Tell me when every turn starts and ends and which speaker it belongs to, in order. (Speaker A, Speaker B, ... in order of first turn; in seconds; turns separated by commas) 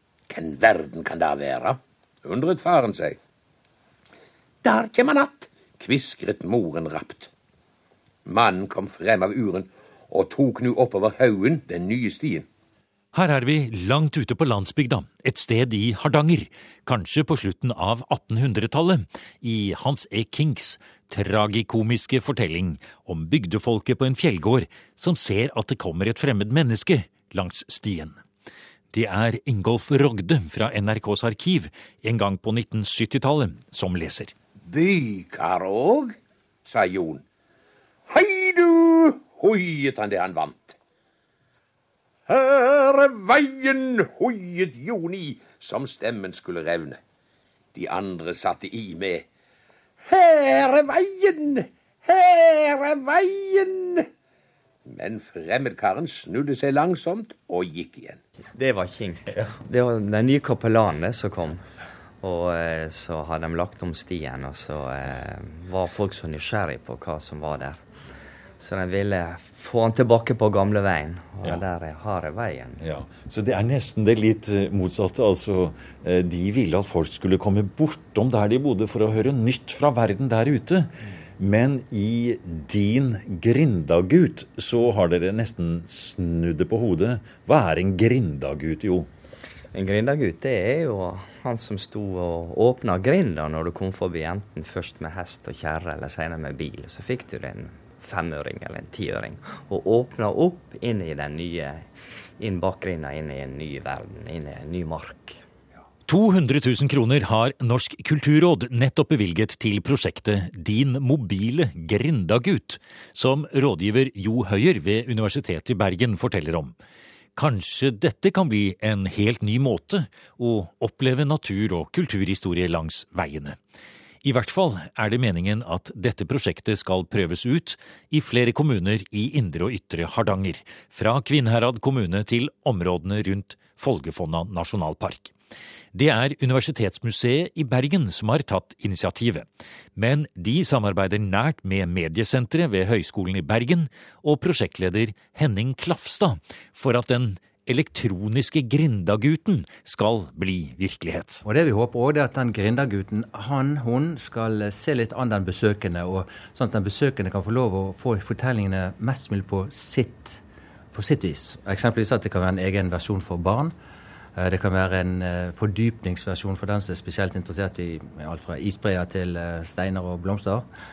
Speaker A: 0.3-3.2, Speaker A: 4.6-7.3, Speaker A: 8.3-12.5, Speaker B: 13.1-28.2, Speaker B: 28.9-34.3, Speaker A: 34.7-37.2, Speaker A: 38.1-40.8, Speaker A: 42.3-47.0, Speaker A: 47.7-49.3, Speaker A: 50.0-54.1, Speaker A: 54.9-58.2, Speaker C: 58.5-61.7, Speaker C: 62.2-67.8, Speaker C: 68.6-72.8, Speaker B: 72.8-89.1, Speaker C: 89.7-101.8, Speaker C: 102.4-105.4, Speaker B: 106.1-116.8, Speaker B: 117.4-123.6, Speaker B: 124.2-135.3, Speaker B: 135.9-151.4, Speaker D: 151.5-160.4, Speaker D: 160.9-163.7, Speaker D: 164.4-170.7